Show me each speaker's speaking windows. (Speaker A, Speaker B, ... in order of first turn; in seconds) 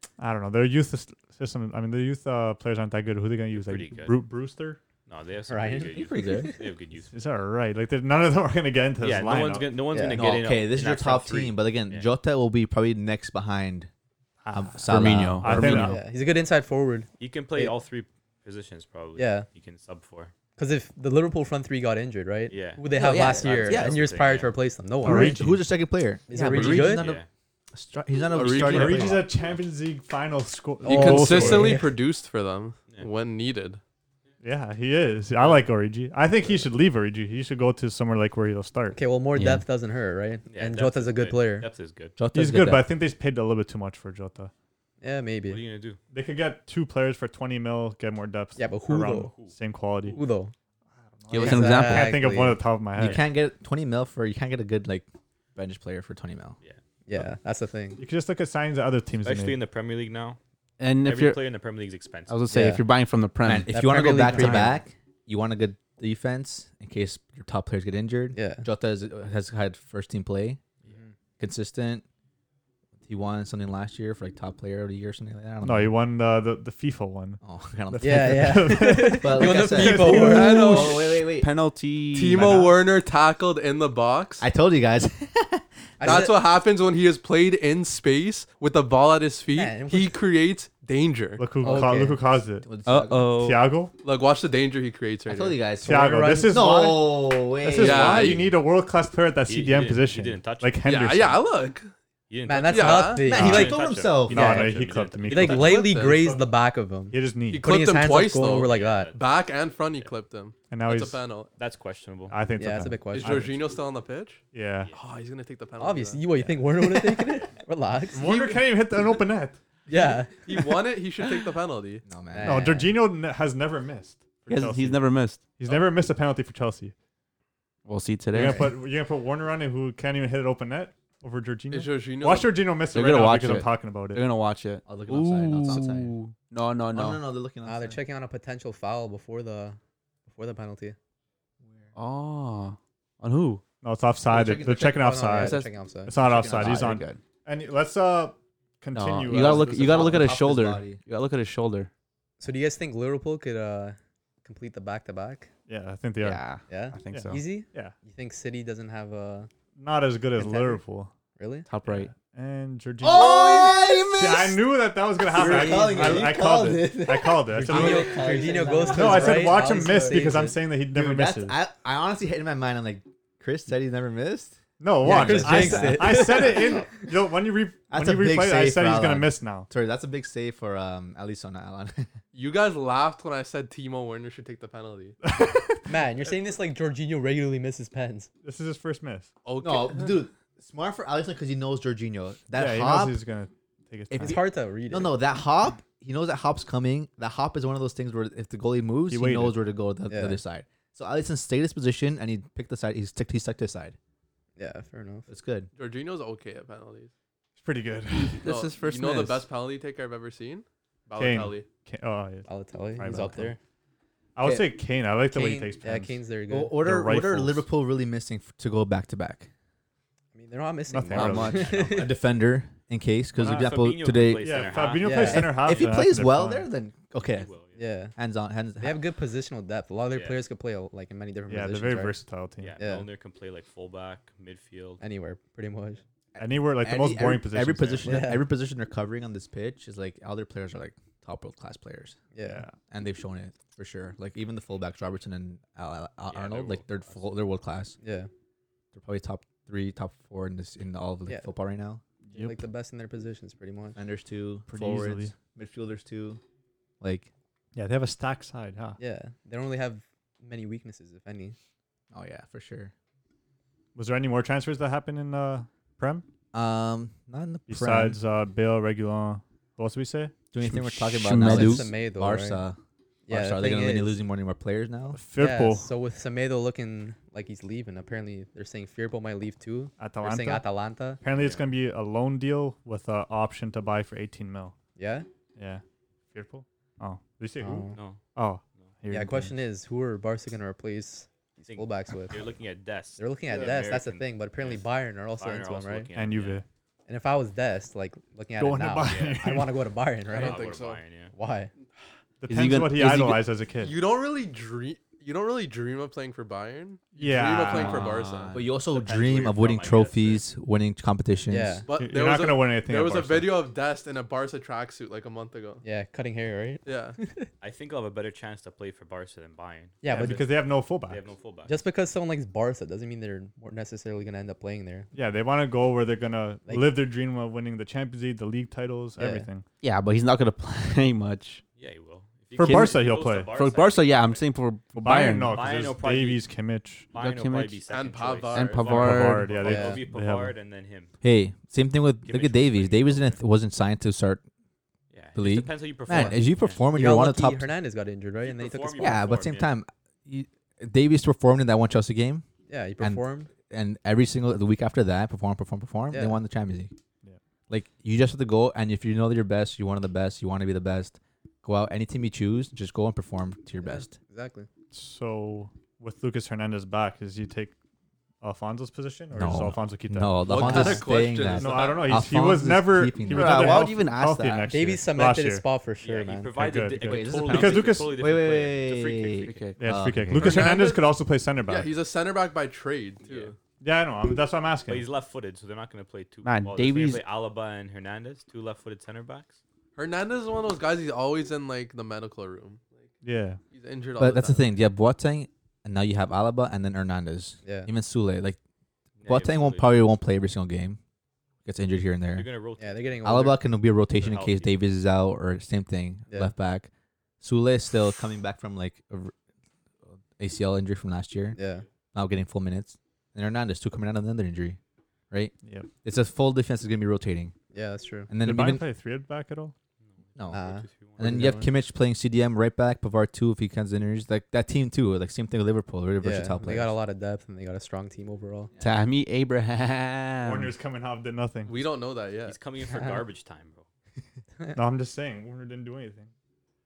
Speaker A: 0.2-4.8, 7.1-9.8, 14.4-16.0, 25.0-25.6, 28.6-31.8, 34.4-39.0, 42.3-44.5, 46.1-50.2, 51.2-53.3, 58.0-59.6, 75.6-77.4, 77.9-79.7, 82.4-82.7, 91.4-92.8, 93.3-93.9, 95.8-101.4, 104.3-106.1, 107.1-107.7, 110.7-111.2, 112.3-113.5, 114.5-114.9, 118.1-119.6, 122.4-126.9, 128.3-134.2, 143.8-150.4, 155.7-156.6, 157.1-158.0, 159.8-161.1, 161.8-168.2, 168.8-171.6, 174.8-179.7, 185.2-185.9, 188.4-189.3, 192.6-194.4, 199.1-199.6, 207.6-208.4, 211.2-213.5, 214.4-216.2, 216.8-217.7, 220.9-221.8, 223.4-223.8, 224.4-226.7, 231.5-232.8, 236.4-238.1, 242.4-242.8, 252.3-252.6, 254.7-255.3, 257.8-259.0, 263.9-266.2, 267.7-270.5, 275.1-275.9, 280.0-280.6, 281.2-284.8, 285.6-289.5, 296.1-296.6, 298.6-299.8, 302.4-303.9, 307.1-308.1, 312.0-313.6, 320.1-321.3, 325.1-329.7, 332.6-333.5, 334.9-337.1, 338.9-340.6, 364.9-367.8, 368.4-375.6, 376.6-378.1, 379.8-381.9, 383.8-385.1, 393.2-393.6, 415.6-415.9, 418.4-419.7, 430.4-431.7, 434.8-436.3
Speaker B: 3.5-4.2, 5.1-7.1, 9.0-12.1, 17.2-20.3, 22.5-24.5, 26.8-27.3, 40.5-42.2, 45.4-46.0, 59.2-60.4, 61.0-62.4, 99.5-101.1, 102.3-106.2, 108.5-109.2, 111.6-112.4, 117.1-117.5, 221.4-222.1, 223.4-225.3, 227.3-227.8, 230.1-230.4, 232.6-235.0, 246.3-247.3, 281.4-281.6, 287.9-288.2, 291.7-296.6, 299.1-299.4, 300.3-301.3, 308.8-310.5, 317.6-321.8, 331.8-334.4, 335.3-336.4, 337.1-341.1, 342.3-343.4, 345.1-346.8, 348.4-349.7, 376.0-379.7, 383.2-383.6, 384.9-389.6, 399.2-400.1, 402.3-403.1, 404.2-404.8, 420.1-421.5, 432.5-433.9
Speaker C: 5.5-6.6, 9.9-10.2, 15.8-17.8, 19.2-19.5, 20.6-25.4, 26.3-27.1, 30.9-31.9, 38.9-41.7, 45.0-45.6, 48.6-49.4, 50.1-50.5, 51.4-52.6, 57.1-58.0, 62.5-62.8, 63.7-64.8, 68.3-68.7, 78.0-80.9, 86.0-86.4, 89.5-90.2, 91.6-92.3, 102.5-109.1, 112.6-113.5, 115.8-118.4, 119.9-120.8, 122.3-123.0, 137.6-141.0, 145.0-146.2, 152.4-155.5, 156.7-159.5, 160.4-160.8, 161.4-161.7, 165.3-166.3, 167.5-170.6, 175.0-177.1, 185.9-188.3, 194.2-195.2, 200.1-200.4, 204.6-205.3, 212.5-213.6, 215.3-216.8, 220.3-222.1, 225.0-225.7, 227.8-228.2, 228.8-232.2, 232.8-233.1, 235.0-236.0, 238.0-238.4, 242.3-242.6, 248.0-248.3, 252.3-254.0, 259.0-261.6, 271.4-272.6, 273.3-274.2, 275.4-281.2, 285.0-285.3, 287.6-288.0, 289.1-292.5, 293.2-296.1, 297.1-300.7, 301.3-301.7, 311.5-311.9, 315.8-317.5, 320.0-320.5, 321.7-325.1, 326.7-326.9, 329.2-329.5, 339.6-340.0, 346.1-346.4, 346.9-349.2, 352.7-353.5, 356.1-356.4, 363.8-364.7, 374.7-376.6, 397.6-397.9, 402.8-403.6, 411.6-411.9, 417.7-418.3, 420.5-421.7, 426.2-428.7, 432.9-433.2
Speaker D: 5.9-6.5, 10.1-13.9, 14.5-15.9, 23.0-24.0, 25.1-29.3, 42.2-42.9, 53.0-56.6, 63.4-70.6, 71.4-72.0, 73.1-75.9, 77.4-81.5, 84.4-85.7, 92.6-93.3, 95.3-98.5, 103.2-104.6, 122.1-122.7, 134.8-136.1, 136.9-138.0, 144.3-145.2, 146.2-146.9, 149.3-151.0, 163.0-164.7, 165.2-176.4, 177.9-182.1, 189.6-193.2, 194.1-204.0, 205.3-205.7, 214.4-214.7, 216.5-219.5, 221.7-227.5, 228.2-229.0, 236.3-242.2, 242.9-248.0, 248.9-252.0, 254.0-256.4, 257.0-257.3, 262.1-262.9, 266.5-268.2, 270.5-275.2, 308.5-311.9, 341.2-344.4, 345.4-347.7, 349.0-352.5, 353.0-356.9, 357.7-364.1, 369.3-374.8, 377.0-380.6, 394.2-398.6, 399.3-401.0, 401.6-402.5, 403.2-406.9, 407.4-409.3, 410.4-411.6, 412.1-414.8, 415.3-417.5, 418.3-418.8, 420.4-426.9
Speaker E: 14.9-16.0, 22.9-23.6, 26.5-26.9, 39.4-39.6, 51.3-52.2, 60.8-61.4, 62.3-64.8, 81.3-82.6, 92.8-93.7, 124.5-125.5, 127.8-128.7, 132.9-137.2, 141.9-143.6, 145.3-145.7, 146.4-147.2, 148.9-151.9, 156.2-157.4, 161.7-162.1, 208.3-209.5, 270.6-271.9, 302.5-303.5, 307.6-308.7, 329.8-331.6, 332.6-335.6, 337.2-337.8, 338.5-339.6, 373.3-374.1, 379.4-380.8, 386.4-387.2, 428.8-430.8
Speaker F: 28.3-29.3, 30.8-33.8, 79.8-81.2, 82.1-84.5, 86.0-91.8, 94.0-95.6, 97.8-98.5, 100.8-101.9, 102.7-103.3, 105.4-106.3, 107.5-111.5, 113.1-116.2, 118.2-118.6, 120.3-122.0, 131.7-132.6, 182.3-185.2, 189.4-190.2, 205.8-207.1, 208.4-211.7, 293.5-293.8, 300.3-301.0, 303.8-308.6, 311.9-315.8, 316.9-317.2, 337.9-338.9, 370.5-372.2, 380.4-381.1, 381.7-383.6, 390.0-393.1, 393.7-394.7, 431.6-432.6